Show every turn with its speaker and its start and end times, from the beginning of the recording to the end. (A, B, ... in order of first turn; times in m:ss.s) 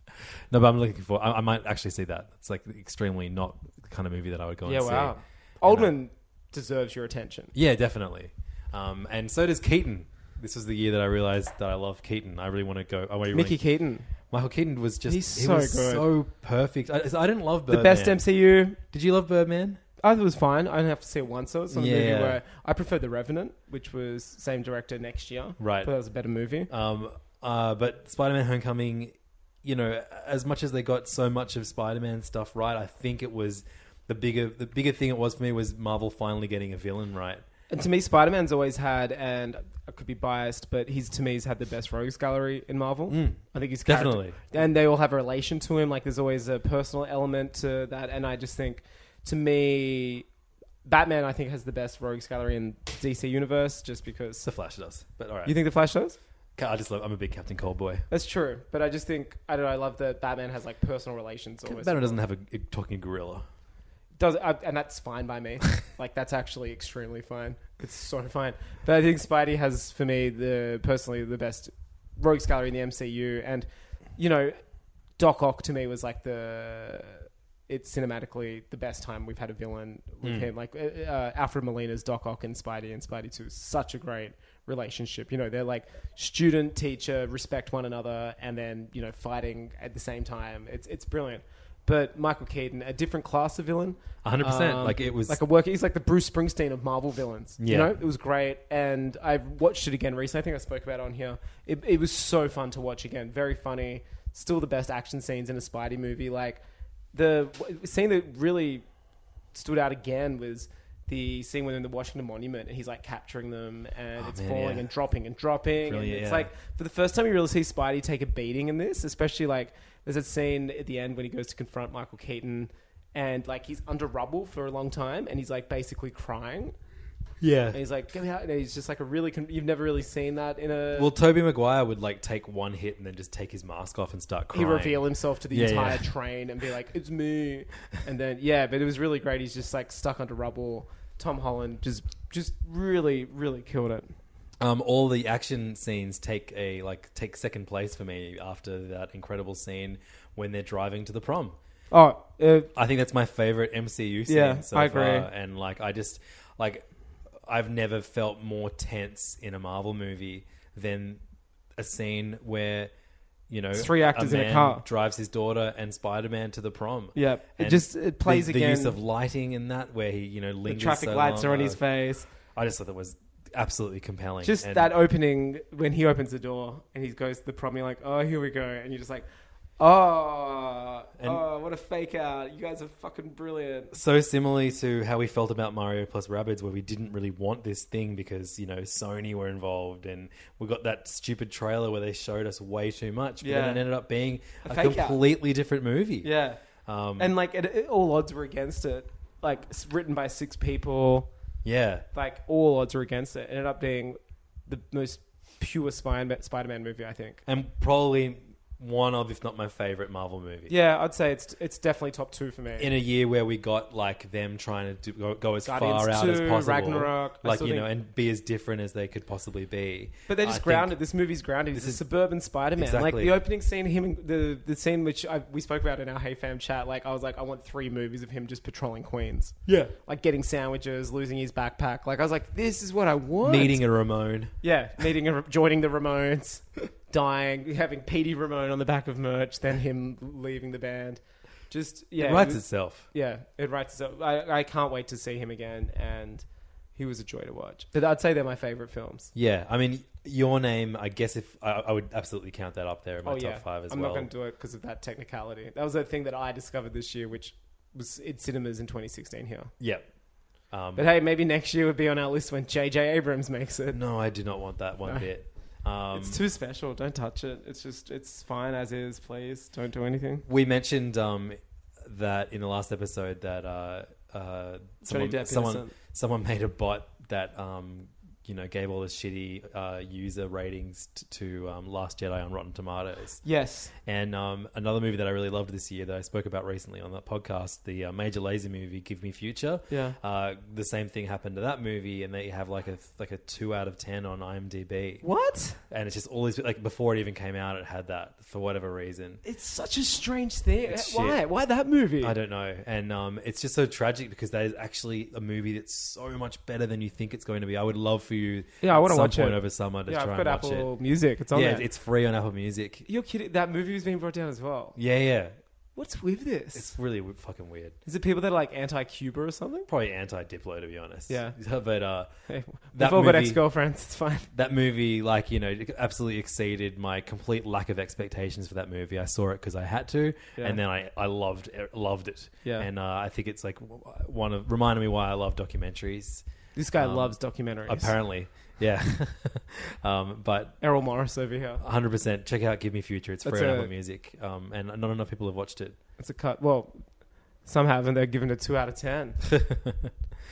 0:00.5-0:05.9 A
0:04.6-0:07.5 B
0:07.5-0:18.2 A
0:13.3-0:14.1 B
0:15.0-0:16.0 B
0:17.7-0:18.8 B
0:18.8-0:19.8 A
0:20.0-0:26.7 B
0:21.7-0:22.4 A
0:25.6-0:25.9 A
0:26.7-0:37.4 A
0:37.7-0:50.2 B
0:43.1-0:44.5 A
0:50.8-0:54.4 B
0:54.4-0:55.6 A
0:55.4-0:56.2 B
0:56.6-0:58.1 A
0:58.1-1:02.2 B
1:01.6-1:03.4 A
1:04.2-1:14.6 B
1:15.2-1:46.6 B
1:20.2-1:20.5 A
1:34.2-1:35.4 A
1:37.6-1:38.0 A
1:47.1-1:48.8 B
1:49.5-2:06.7 B
1:54.2-1:54.9 A
1:55.8-1:56.5 A
2:07.4-2:07.8 A
2:07.7-2:11.1 B
2:10.9-2:16.1 A
2:14.5-2:24.1 B
2:24.6-2:31.6 A
2:31.9-2:32.7 B
2:32.7-2:41.2 A
2:34.3-2:35.3 B
2:41.8-2:42.9 A
2:43.5-2:54.9 A
2:43.7-2:44.8 B
2:47.1-2:49.0 B
2:50.7-2:52.3 B
2:54.4-2:59.3 B
2:59.8-3:03.9 B
3:01.2-3:01.4 A
3:03.9-3:17.3 A
3:13.4-3:13.8 B
3:14.6-3:15.2 B
3:16.2-3:16.6 B
3:17.2-3:21.3 B
3:21.6-3:22.0 A
3:22.1-3:27.4 B
3:27.4-3:30.7 A
3:30.7-3:32.9 B
3:32.8-3:41.0 A
3:35.6-3:37.9 B
3:40.3-3:53.8 B
3:41.7-3:42.0 A
3:42.7-3:43.4 A
3:49.6-3:49.9 A
3:53.4-3:54.6 A
3:54.6-4:09.3 B
4:02.2-4:03.1 A
4:09.3-4:14.3 A
4:13.2-4:19.7 B
4:19.8-4:20.1 A
4:20.6-4:21.1 A
4:21.0-4:24.0 B
4:23.9-4:26.4 A
4:26.1-4:30.4 B
4:30.4-4:43.4 A
4:35.0-4:35.9 B
4:43.4-4:43.9 B
4:44.0-4:55.3 A
4:49.9-4:50.2 B
4:55.2-4:55.8 B
4:55.9-4:59.4 A
4:59.4-5:02.3 B
5:00.8-5:01.4 A
5:02.2-5:10.9 A
5:08.8-5:11.8 B
5:11.5-5:13.1 A
5:13.0-5:15.0 B
5:15.0-5:15.5 A
5:16.0-5:16.9 B
5:16.7-5:18.0 A
5:18.0-5:19.9 B
5:19.9-5:23.6 A
5:21.3-5:21.6 B
5:22.5-5:24.5 B
5:24.5-5:40.8 A
5:36.7-5:38.2 B
5:40.8-5:41.8 B
5:41.8-5:46.0 A
5:43.4-5:43.9 B
5:46.2-5:49.4 B
5:49.5-5:50.1 A